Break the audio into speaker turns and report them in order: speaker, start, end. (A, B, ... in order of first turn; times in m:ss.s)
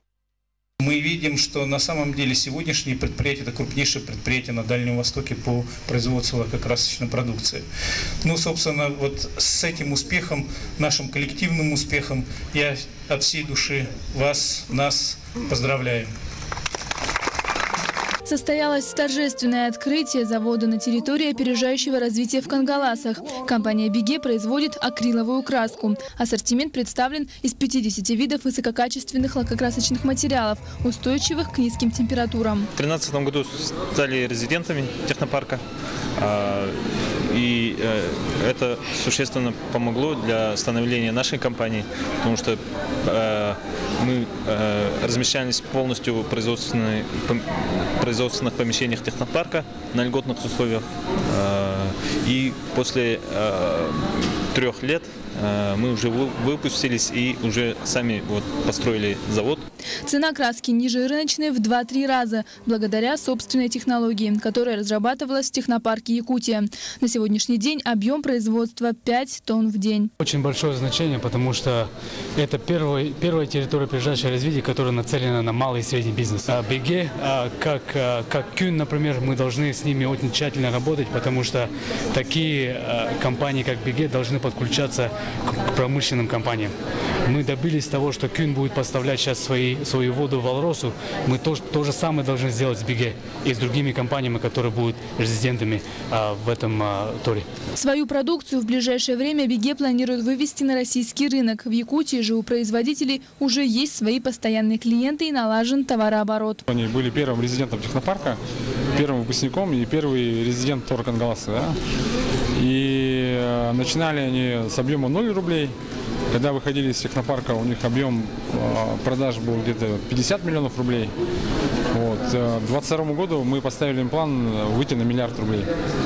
0:00.8-0:07.6 A
0:08.2-0:16.1 A
0:18.2-0:32.7 B
0:32.8-0:35.6 C
0:36.2-0:59.6 C
1:00.0-1:10.1 B
1:10.2-1:26.7 D
1:27.2-1:37.5 D
1:37.8-1:46.7 B
1:46.7-1:48.4 E
1:48.9-1:51.8 E
1:52.6-1:55.8 E
1:56.3-2:01.1 E
2:01.9-2:05.7 E